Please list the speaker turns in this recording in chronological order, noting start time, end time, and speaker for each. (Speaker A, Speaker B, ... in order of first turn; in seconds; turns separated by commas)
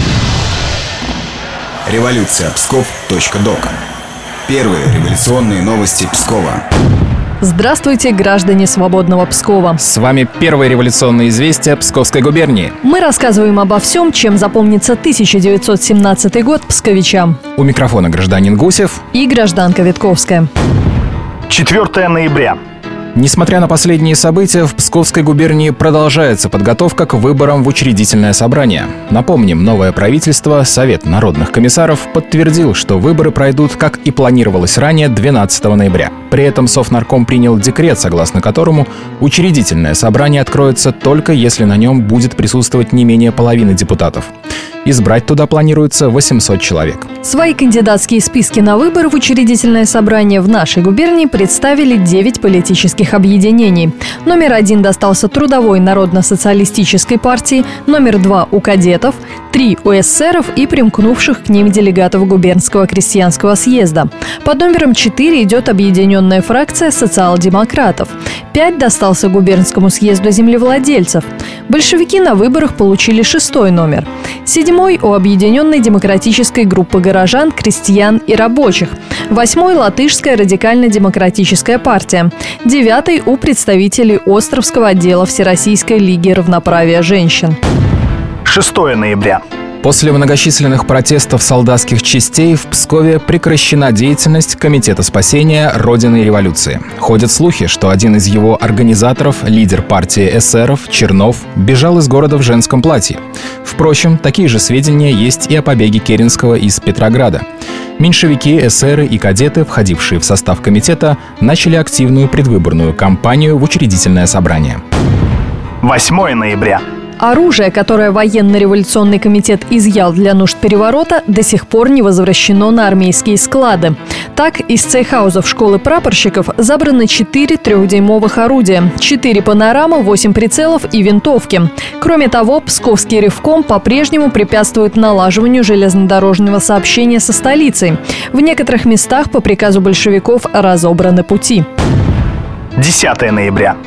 Speaker A: 1.8-3.7, Speaker A: 4.5-6.6, Speaker B: 7.4-9.8, Speaker C: 9.8-12.8, Speaker B: 12.8-17.4, Speaker C: 17.6-19.0, Speaker B: 19.1-20.5, Speaker D: 21.5-22.6, Speaker C: 23.1-44.3, Speaker C: 44.8-47.1, Speaker B: 47.2-87.6, Speaker D: 88.5-89.4, Speaker C: 89.8-107.4, Speaker C: 108.0-114.8, Speaker D: 115.8-116.8, Speaker B: 117.2-141.7, Speaker D: 142.8-143.8